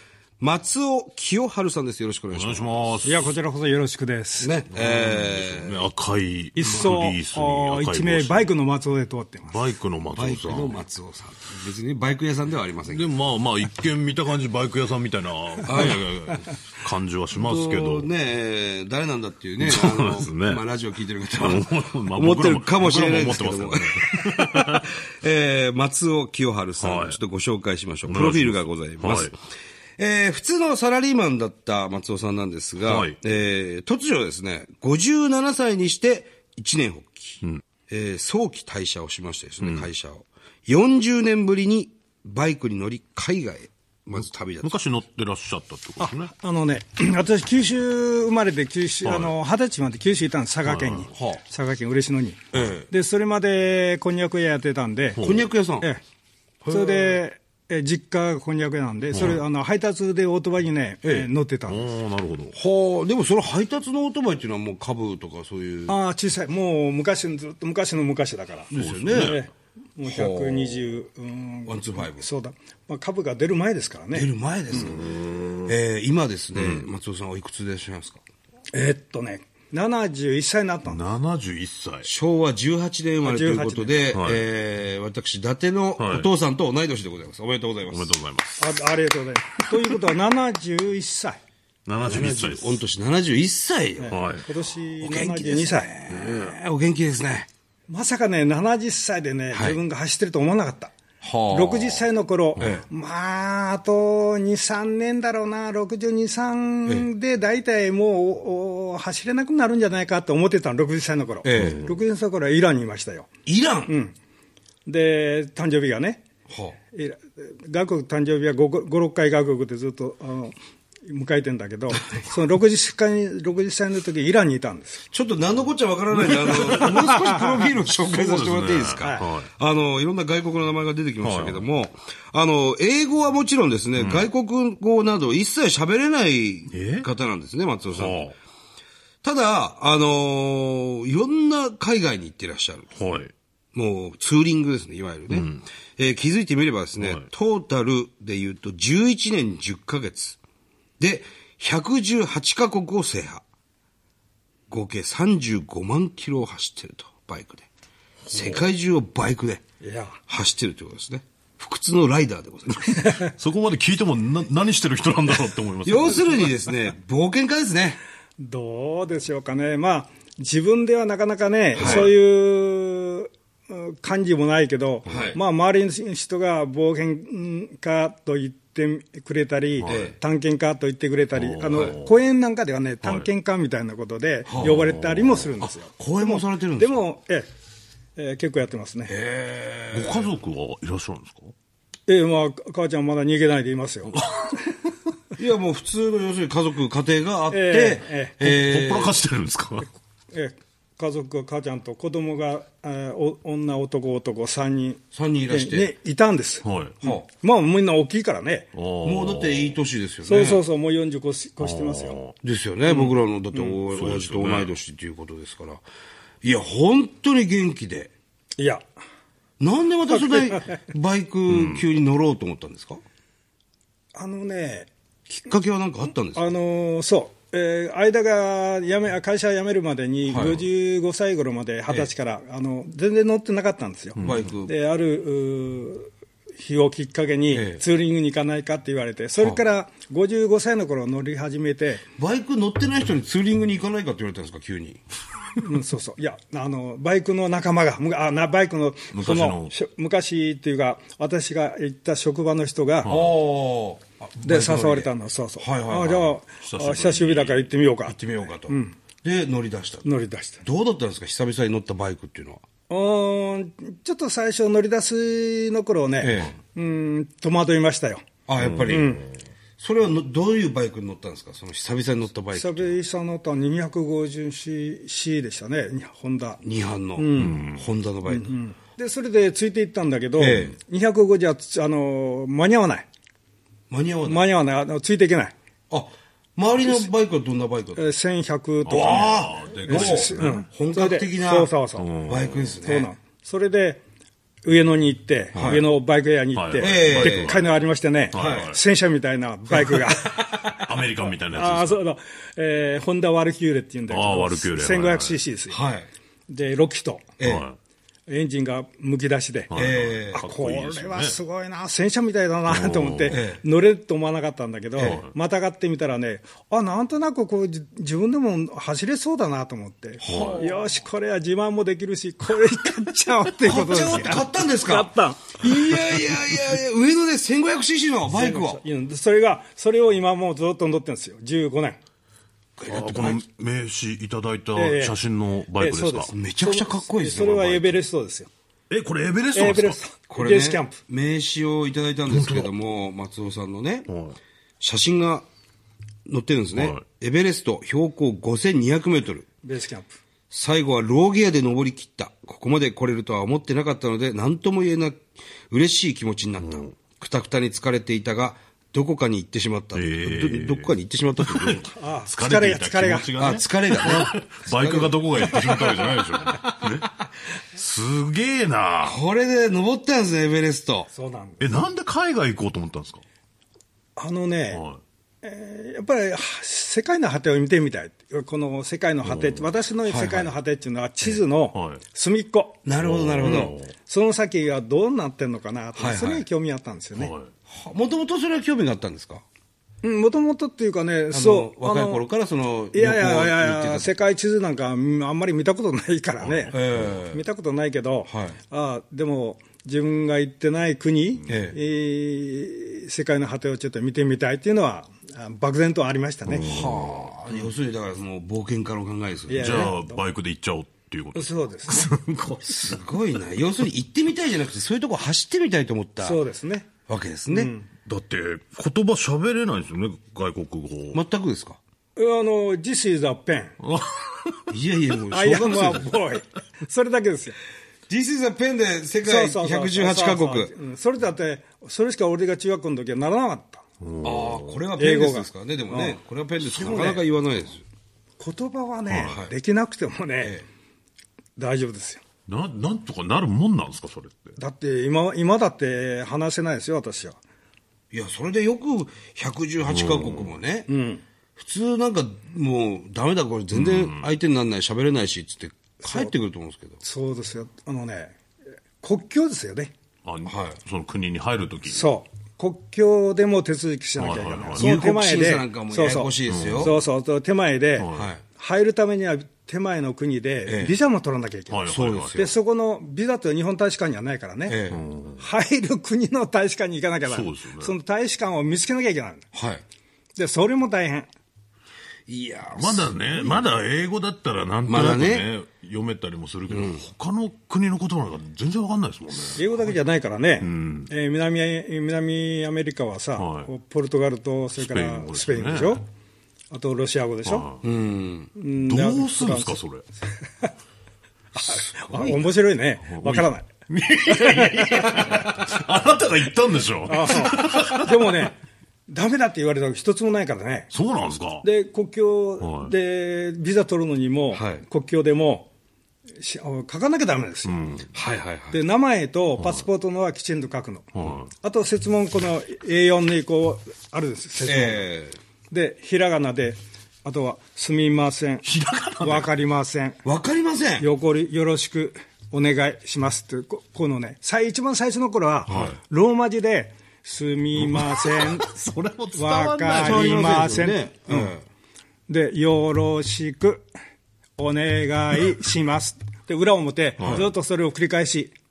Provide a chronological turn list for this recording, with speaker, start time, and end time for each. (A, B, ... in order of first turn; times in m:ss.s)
0:00.4-0:03.0 A
0:02.3-0:03.3 B
0:03.0-0:04.5 C
0:04.4-0:05.8 A
0:04.7-0:08.5 B
0:06.6-0:09.6 C
0:06.7-0:06.9 A
0:09.5-0:10.8 B
0:10.1-0:13.1 A
0:12.8-0:18.1 B
0:15.6-0:16.5 A
0:17.3-0:29.4 A
0:19.6-0:20.6 B
0:21.4-0:24.8 B
0:26.8-0:27.2 B
0:28.1-0:29.3 B
0:30.0-0:44.7 A
0:32.8-0:33.2 B
0:39.6-0:39.9 B
0:44.2-0:46.3 B
0:46.0-0:52.4 C
0:49.0-0:49.3 B
0:50.6-0:51.1 B
0:51.1-0:51.4 A
0:52.5-0:52.9 A
0:52.9-0:55.2 C
0:55.2-0:55.5 B
0:55.2-0:55.9 A
0:56.6-0:57.2 A
0:56.7-1:01.8 C
0:59.1-0:59.4 B
1:01.6-1:02.5 B
1:02.5-1:06.0 A
1:05.9-1:14.3 C
1:08.7-1:09.4 A
1:08.7-1:09.4 B
1:10.0-1:10.9 A
1:11.6-1:12.2 A
1:14.1-1:18.2 A
1:14.7-1:15.7 B
1:16.5-1:16.9 B
1:18.7-1:21.0 C
1:20.8-1:22.1 B
1:22.0-1:28.2 A
1:23.2-1:24.1 C
1:24.1-1:24.4 B
1:26.0-1:26.3 B
1:27.9-1:28.6 B
1:28.6-1:31.4 C
1:31.8-1:32.8 B
1:32.0-1:34.2 A
1:34.0-1:35.9 C
1:34.1-1:34.4 B
1:35.0-1:37.5 A
1:36.1-1:36.5 B
1:37.9-1:40.9 C
1:39.5-1:39.8 A
1:41.2-1:42.8 A
1:41.5-1:53.3 C
1:51.4-1:51.8 A
1:51.6-1:51.9 B
1:53.4-1:53.9 A
1:53.9-1:54.1 C
1:54.8-1:56.2 C
1:56.5-1:56.8 A
1:56.9-2:05.0 C
2:05.1-2:18.2 A
2:06.5-2:07.7 C
2:08.0-2:09.5 B
2:09.0-2:09.3 C
2:11.2-2:11.6 B
2:14.0-2:14.3 B
2:16.7-2:17.1 B
2:17.9-2:18.3 B
2:19.2-2:22.9 A
2:22.9-2:23.3 B
2:23.7-2:30.4 A
2:25.3-2:25.6 B
2:27.0-2:27.2 B
2:31.0-2:33.4 A
2:34.7-2:37.7 A
2:38.3-2:38.7 B
2:38.3-2:39.6 A
2:39.8-2:40.2 C
2:40.3-2:43.2 A
2:43.0-2:43.3 C
2:43.4-2:46.5 B
2:45.8-2:48.0 A
2:48.4-3:07.5 C
2:51.8-2:52.2 A
2:51.8-2:52.0 B
2:55.0-2:55.4 A
2:59.8-3:00.2 A
3:01.3-3:02.1 B
3:03.0-3:03.3 B
3:04.5-3:04.8 A
3:04.6-3:05.5 B
3:06.0-3:07.0 A
3:08.2-3:09.1 C
3:09.1-3:10.3 A
3:09.9-3:11.5 B
3:12.1-3:14.2 C
3:14.1-3:14.7 B
3:15.4-3:19.2 A
3:17.5-3:18.4 C
3:18.4-3:19.9 B
3:20.3-3:28.7 C
3:25.1-3:25.9 A
3:26.6-3:27.0 B
3:28.7-3:29.8 B
3:29.0-3:30.6 A
3:30.2-3:32.2 C
3:31.6-3:32.4 B
3:32.4-3:35.8 A
3:32.8-3:33.8 C
3:33.9-3:34.7 B
3:36.4-3:38.1 A
3:38.6-3:38.8 C
3:39.6-3:43.0 A
3:40.1-3:40.8 C
3:41.5-3:41.8 B
3:44.1-3:44.9 C
3:45.3-3:46.5 A
3:46.3-4:02.0 C
3:50.3-3:50.6 A
3:54.2-3:54.4 B
3:54.2-3:54.7 A
3:57.5-3:57.8 A
4:02.2-4:05.0 A
4:05.6-4:13.1 C
4:09.1-4:09.7 B
4:13.0-4:13.4 B
4:13.0-4:16.4 A
4:14.4-4:18.9 C
4:16.6-4:17.7 B
4:18.1-4:20.0 A
4:20.0-4:20.6 C
4:20.6-4:22.6 A
4:22.9-4:28.2 C
4:26.2-4:26.6 A
4:28.5-4:29.2 A
4:28.6-4:29.1 B
4:28.9-4:29.3 C
4:29.8-4:33.0 A
4:32.5-4:36.6 C
4:36.6-4:38.5 A
4:37.2-4:37.6 C
4:37.4-4:37.8 B
4:38.2-4:43.0 C
4:40.4-4:40.8 A
4:43.9-4:44.4 A
4:44.2-4:45.5 C
4:45.9-4:48.1 A
4:46.8-4:47.1 C
4:48.0-4:52.1 C
4:48.8-4:50.6 B
4:48.9-4:51.7 A
4:52.0-4:52.8 B
4:52.2-4:53.1 A
4:52.8-4:54.0 C
4:54.6-5:05.8 C
4:55.5-4:55.8 A
4:56.5-4:57.8 B
4:56.8-4:57.6 A
4:58.3-4:58.8 B
4:58.3-4:58.7 A
5:00.8-5:02.0 B
5:04.1-5:05.4 B
5:05.7-5:06.1 A
5:06.5-5:07.3 C
5:07.4-5:07.6 A
5:07.4-5:07.8 B
5:08.3-5:09.7 C
5:09.7-5:11.4 B
5:09.7-5:10.4 A
5:10.4-5:25.9 C
5:12.7-5:13.4 B
5:13.3-5:13.6 A
5:15.0-5:15.2 A
5:20.2-5:20.8 A
5:20.2-5:20.6 B
5:23.6-5:28.8 A
5:28.3-5:32.0 C
5:32.8-5:33.4 A
5:32.9-5:36.3 B
5:34.7-5:35.2 C
5:35.8-5:38.5 C
5:36.3-5:38.0 A
5:38.9-5:40.0 B
5:39.5-5:41.0 C
5:40.3-5:44.1 A
5:42.3-5:42.7 B
5:44.1-5:44.4 B
5:44.8-5:45.5 A
5:46.2-5:49.4 A
5:46.7-5:47.0 B
5:49.6-5:50.2 C
5:50.5-6:01.9 A
5:56.6-5:56.9 B
5:59.9-6:09.2 B
6:01.9-6:03.6 C
6:03.4-6:05.8 A
6:09.0-6:11.1 A
6:11.1-6:11.7 C
6:11.6-6:13.2 B
6:14.2-6:14.8 C
6:14.7-6:15.0 B
6:15.4-6:22.8 C
6:19.2-6:19.7 B
6:20.0-6:20.5 A
6:21.2-6:22.0 B
6:22.8-6:23.8 A
6:23.0-6:23.9 B
6:23.4-6:27.3 C
6:25.9-6:26.4 A
6:27.1-6:27.5 B
6:27.7-6:29.4 A
6:30.0-6:32.2 C
6:31.3-6:34.1 A
6:32.9-6:46.8 C
6:36.4-6:37.1 B
6:36.7-6:37.4 A
6:38.3-6:38.6 A
6:41.5-6:41.8 A
6:46.4-6:47.3 B
6:46.6-6:49.9 A
6:49.5-6:50.2 C
6:49.6-6:53.0 B
6:51.3-6:52.1 C
6:52.7-6:56.4 A
6:56.2-6:56.9 C
6:57.1-6:57.7 A
6:57.5-6:57.9 C
6:58.0-7:01.2 B
7:01.1-7:01.8 A
7:02.2-7:03.7 C
7:03.8-7:04.6 B
7:04.7-7:06.1 A
7:05.3-7:07.6 C
7:08.1-7:10.7 A
7:09.2-7:13.8 C
7:14.0-7:14.8 B
7:14.2-7:17.8 A
7:15.0-7:17.2 C
7:18.4-7:20.6 C
7:19.1-7:19.4 B
7:19.2-7:19.5 A
7:21.6-7:22.2 C
7:22.5-7:24.6 B
7:24.6-7:27.4 C
7:28.1-7:30.9 A
7:29.8-7:30.5 B
7:30.9-7:31.2 C
7:31.6-7:37.0 A
7:33.7-7:34.3 B
7:36.0-7:36.3 C
7:37.0-7:38.3 C
7:39.0-7:39.9 C
7:40.2-7:42.1 B
7:40.4-7:40.8 A
7:41.9-7:54.8 C
7:44.2-7:44.9 B
7:44.8-7:47.0 A
7:46.5-7:47.0 B
7:48.0-7:48.3 B
7:48.1-7:48.4 A
7:50.6-7:51.0 A
7:51.7-7:52.4 B
7:51.9-7:52.5 A
7:54.7-7:55.0 A
7:54.9-7:55.4 B
7:55.4-7:59.4 C
7:57.2-7:57.9 B
7:59.5-7:59.8 A
8:00.4-8:01.3 C
8:02.3-8:03.6 A
8:02.7-8:09.7 B
8:04.8-8:05.5 A
8:06.7-8:07.0 A
8:09.6-8:16.1 C
8:10.6-8:11.1 B
8:13.4-8:13.7 B
8:14.8-8:16.0 B
8:16.7-8:17.7 C
8:17.4-8:17.8 B
8:17.8-8:18.5 A
8:18.5-8:19.8 C
8:18.8-8:20.0 B
8:21.6-8:23.7 C
8:23.1-8:28.5 B
8:24.3-8:25.4 C
8:27.0-8:30.9 C
8:30.9-8:31.6 B
8:31.6-8:35.7 C
8:32.6-8:32.9 B
8:34.5-8:34.8 A
8:36.4-8:37.8 C
8:37.6-8:38.1 B
8:38.1-8:38.8 A
8:38.7-8:45.0 C
8:39.6-8:39.8 B
8:41.1-8:41.5 B
8:44.6-8:45.4 A
8:45.7-8:48.6 C
8:48.6-8:49.5 B
8:49.2-8:50.2 C
8:50.2-8:51.1 A
8:51.0-8:58.6 C
8:55.7-8:56.0 A
8:55.7-8:55.9 B
8:57.7-9:00.8 B
8:59.3-9:01.6 C
8:59.9-9:01.6 A
9:02.3-9:03.9 C
9:04.6-9:08.5 C
9:07.2-9:07.4 A
9:07.2-9:07.5 B